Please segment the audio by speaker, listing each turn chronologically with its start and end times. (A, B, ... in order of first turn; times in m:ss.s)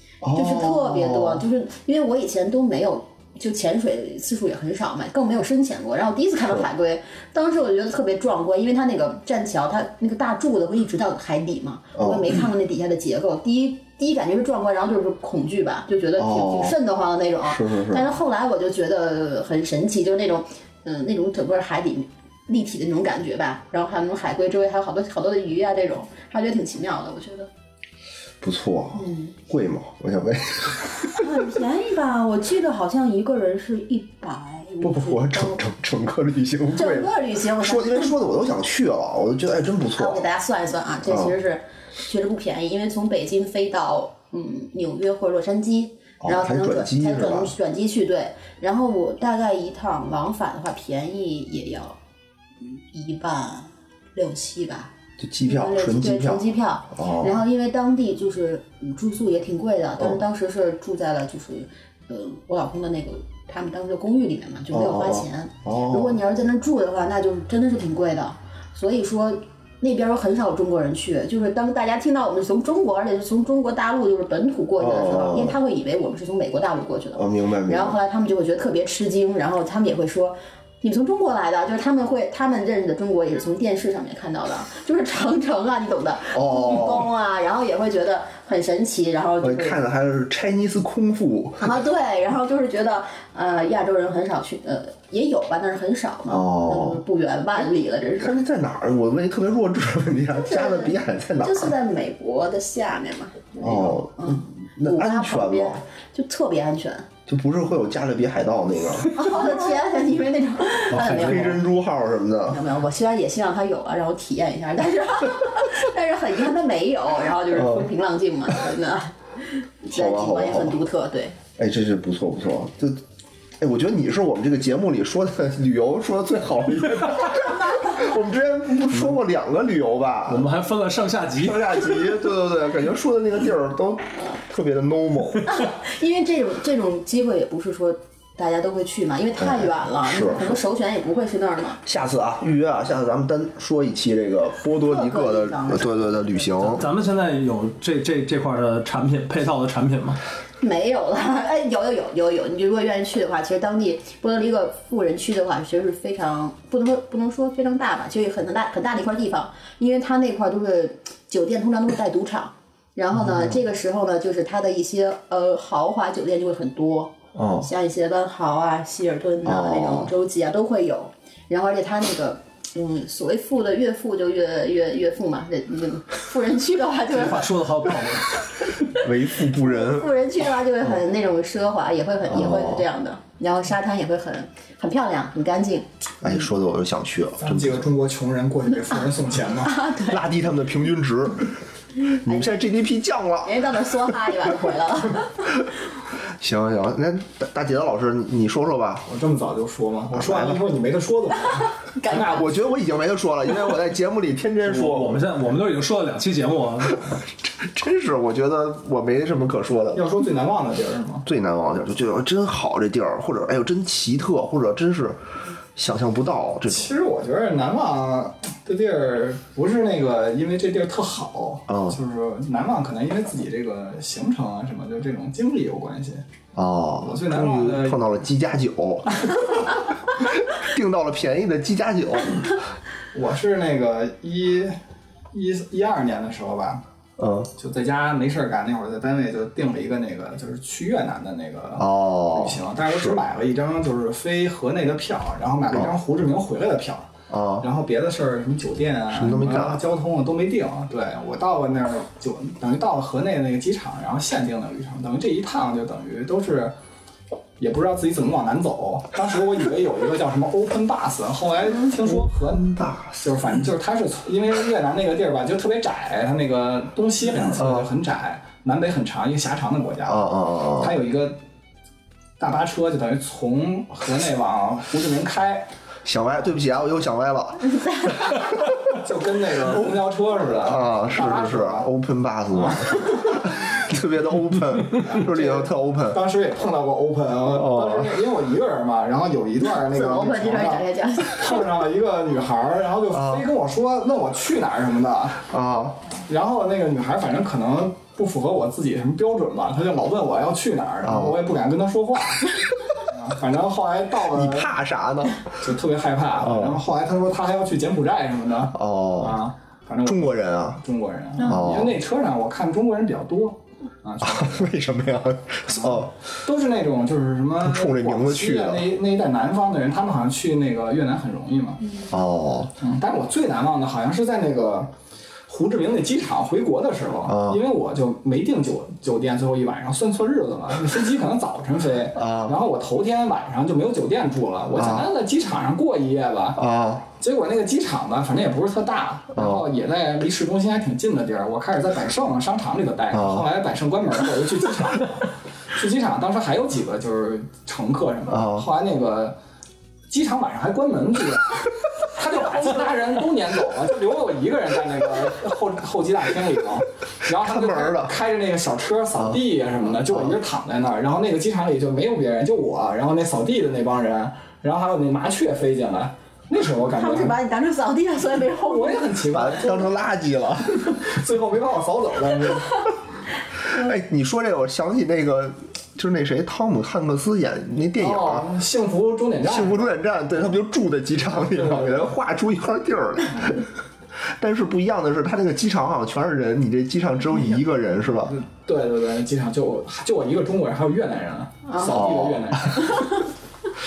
0:00.2-0:01.4 A
0:00.3-0:27.5 B
0:12.0-0:12.3 A
0:16.2-0:16.8 A
0:17.4-0:18.0 A
0:28.4-0:31.2 A
0:28.9-0:29.3 B
0:31.1-0:35.6 B
0:34.8-0:40.2 A
0:36.7-0:38.1 B
0:40.0-0:52.0 B
0:41.0-0:41.3 A
0:46.2-0:47.5 A
0:52.6-0:54.9 B
0:55.2-0:57.4 A
0:55.4-1:29.8 B
1:04.7-1:06.2 A
1:14.8-1:15.6 A
1:17.2-1:18.0 A
1:26.3-1:27.1 A
1:29.4-1:31.7 A
1:31.6-1:38.3 B
1:36.3-1:37.0 A
1:38.2-1:41.7 A
1:40.4-1:47.1 B
1:43.6-1:45.8 A
1:47.3-1:49.5 A
1:49.0-1:51.6 B
1:50.9-1:52.6 A
1:50.9-1:51.6 C
1:52.5-2:01.4 B
1:57.5-1:57.9 A
1:59.9-2:00.8 A
2:01.6-2:03.0 A
2:03.6-2:10.5 A
2:10.3-2:11.8 C
2:11.4-2:15.5 A
2:15.5-2:21.8 B
2:19.4-2:20.6 A
2:21.8-2:26.8 A
2:24.8-2:26.5 B
2:26.7-2:30.2 C
2:30.6-2:57.6 B
2:47.3-2:47.7 A
2:49.4-2:50.1 A
2:57.1-2:58.4 C
2:59.0-3:00.1 A
2:59.6-3:05.9 B
3:02.3-3:02.8 A
3:06.2-3:07.9 A
3:07.4-3:09.8 D
3:09.6-3:10.2 B
3:10.0-3:11.5 A
3:12.1-3:13.5 A
3:13.4-3:15.5 B
3:16.4-3:19.0 A
3:19.1-3:22.5 D
3:20.1-3:20.6 A
3:22.0-3:22.5 B
3:22.2-3:25.3 A
3:24.6-3:27.1 C
3:27.0-3:30.0 A
3:29.9-3:31.2 D
3:31.2-3:35.2 A
3:35.8-3:36.9 A
3:36.7-3:46.2 D
3:41.7-3:42.0 A
3:46.6-3:52.6 A
3:47.0-3:48.1 D
3:53.1-3:54.8 D
3:55.3-3:56.8 D
3:57.2-3:57.5 A
3:57.6-4:07.1 D
4:01.8-4:03.2 A
4:07.3-4:07.7 A
4:07.6-4:16.7 D
4:09.1-4:09.8 A
4:17.6-4:31.4 D
4:22.4-4:23.4 A
4:27.6-4:27.9 A
4:30.0-4:30.9 A
4:32.4-4:35.7 D
4:36.0-4:38.6 A
4:38.9-4:41.9 D
4:40.5-4:46.2 A
4:42.5-4:43.4 D
4:44.9-4:55.4 D
4:47.5-4:48.1 A
4:49.9-4:51.6 B
4:53.1-4:53.4 A
4:55.5-4:56.0 A
4:56.2-5:02.5 D
5:01.0-5:01.4 A
5:03.0-5:04.7 D
5:04.3-5:05.4 A
5:05.6-5:14.7 D
5:06.4-5:06.8 A
5:08.7-5:09.4 A
5:10.0-5:10.8 A
5:11.4-5:12.0 A
5:14.2-5:16.1 A
5:15.7-5:21.8 D
5:17.6-5:18.9 A
5:22.1-5:22.7 A
5:22.8-5:24.9 D
5:25.5-5:36.6 D
5:27.3-5:27.6 A
5:32.1-5:32.6 A
5:34.8-5:35.1 A
5:36.6-5:37.1 A
5:37.2-5:49.4 D
5:39.3-5:39.6 A
5:43.1-5:43.4 A
5:48.3-5:48.7 A
5:50.1-6:07.4 D
5:57.3-5:58.1 A
6:00.1-6:00.3 A
6:06.9-6:09.1 B
6:08.6-6:09.9 D
6:09.3-6:11.0 A
6:10.9-6:12.9 D
6:13.6-6:18.5 A
6:18.0-6:19.9 D
6:19.4-6:23.6 A
6:21.4-6:22.1 D
6:24.4-6:28.3 A
6:28.3-6:33.2 D
6:31.7-6:31.9 B
6:31.8-6:32.6 A